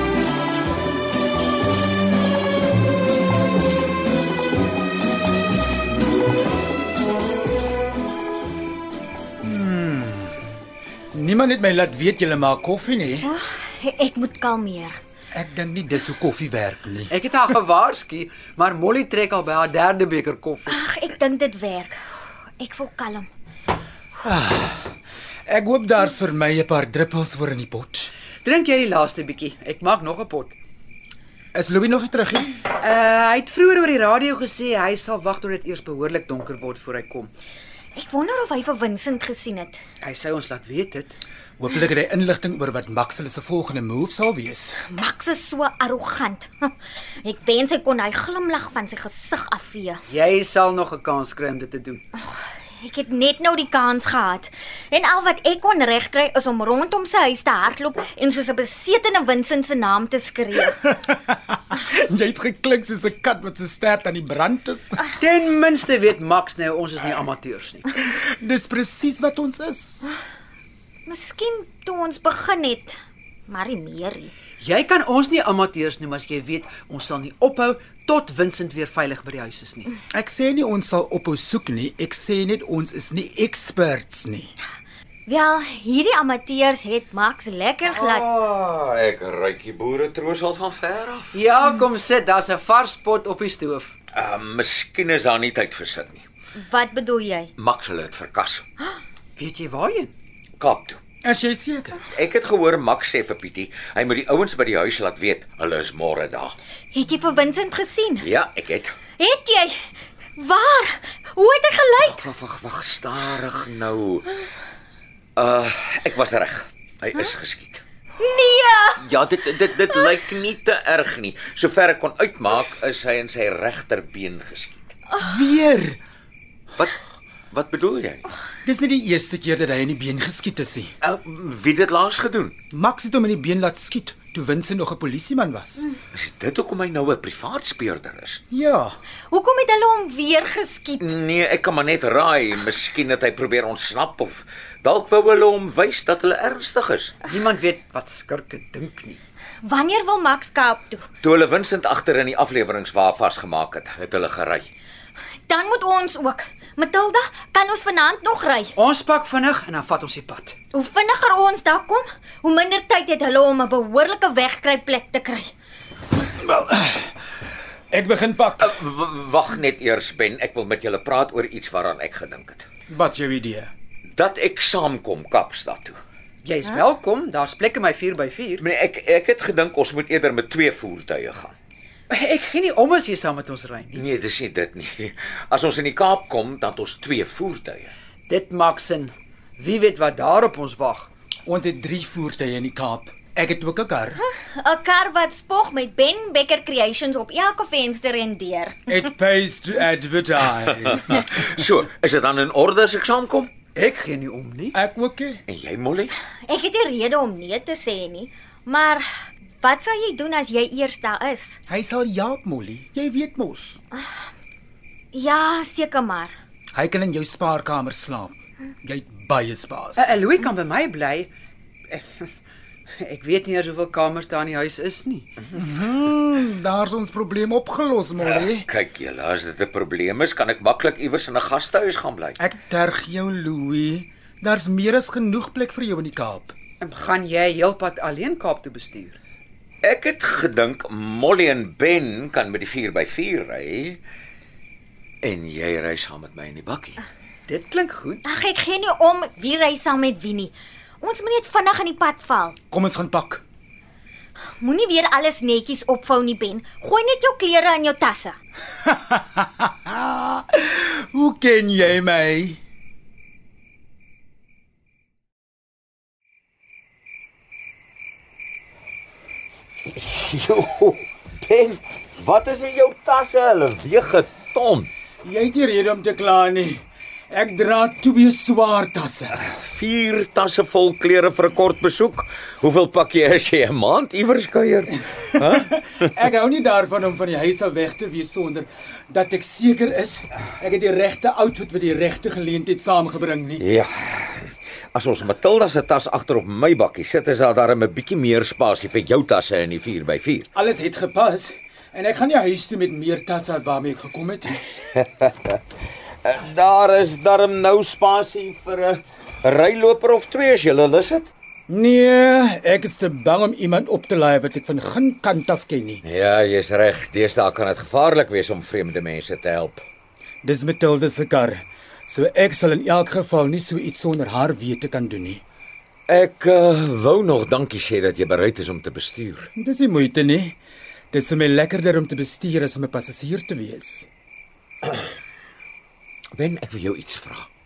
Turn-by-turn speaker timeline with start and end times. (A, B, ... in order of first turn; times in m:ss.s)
0:09.4-0:10.3 A
0:11.1-0:13.3 A
0:13.2-0:15.0 B
0:15.3-0:17.1 A
0:17.1-0:20.8 C
0:20.7-0:21.9 B
0:22.6-0:23.3 B
0:24.2-0:24.9 A
0:25.5-0:28.1 A
0:28.4-0:30.5 C
0:31.5-0:32.5 A
0:32.8-0:37.3 C
0:37.9-0:39.8 B
0:40.0-0:41.2 C
0:41.6-0:44.8 A
0:44.8-0:50.0 B
0:50.1-0:52.0 C
0:52.2-1:00.8 B
1:00.8-1:05.0 A
1:05.2-1:07.9 C
1:08.0-1:10.0 A
1:11.0-1:13.0 B
1:13.5-1:14.3 B
1:14.6-1:19.9 C
1:20.1-1:24.5 A
1:25.3-1:28.2 B
1:27.8-1:31.4 D
1:31.3-1:33.9 C
1:34.1-1:36.2 D
1:36.6-1:37.5 B
1:37.6-1:38.6 D
1:39.4-1:40.1 C
1:40.6-1:41.0 D
1:41.2-1:42.0 A
1:42.1-1:46.5 D
1:46.9-1:48.3 B
1:48.2-1:48.9 D
1:49.2-1:49.8 B
1:50.4-1:52.2 B
1:52.0-1:54.4 D
1:55.4-1:57.8 D
1:58.2-1:59.0 B
1:59.0-2:04.9 D
2:05.2-2:06.0 A
2:06.8-2:08.3 D
2:08.6-2:10.9 A
2:11.0-2:12.5 D
2:12.7-2:15.9 A
2:16.1-2:18.4 D
2:18.5-2:19.0 A
2:19.3-2:21.1 B
2:21.0-2:27.2 D
2:27.3-2:29.2 C
2:29.6-2:31.0 B
2:31.2-2:34.7 D
2:35.5-2:38.7 B
2:38.8-2:40.6 C
2:40.7-2:45.5 B
2:46.4-2:47.1 A
2:47.9-2:48.8 A
2:48.6-2:52.7 D
2:52.9-2:53.7 A
2:54.1-2:56.0 D
2:56.4-2:58.6 C
2:58.6-3:01.5 D
3:02.1-3:04.1 C
3:03.9-3:07.9 D
3:08.3-3:11.1 C
3:11.4-3:14.2 A
3:14.3-3:18.8 B
3:18.9-3:21.2 A
3:20.8-3:23.5 D
3:23.7-3:24.7 C
3:24.7-3:25.4 A
3:25.5-3:26.1 D
3:26.5-3:29.0 B
3:29.6-3:31.6 B
3:31.7-3:33.8 A
3:35.1-3:36.3 B
3:36.7-3:40.1 A
3:40.0-3:41.3 C
3:41.9-3:42.3 C
3:43.0-3:45.5 C
3:45.5-3:48.7 A
3:48.2-3:52.4 D
3:52.4-3:56.5 A
3:56.8-3:59.2 C
3:59.8-4:04.0 D
4:05.2-4:07.0 D
4:07.5-4:08.2 C
4:08.2-4:12.6 B
4:12.7-4:13.4 A
4:14.6-4:18.4 B
4:18.8-4:22.6 A
4:29.8-4:34.9 D
4:35.2-4:39.4 A
4:39.3-4:46.0 D
4:45.1-4:53.6 A
4:53.6-5:00.5 D
5:00.5-5:04.6 A
5:05.0-5:05.6 D
5:06.2-5:11.3 D
5:11.7-5:16.0 A
5:16.0-5:19.8 D
5:20.4-5:25.4 A
5:26.1-5:29.5 D
5:29.6-5:30.6 A
5:31.1-5:34.1 A
5:36.3-5:37.5 D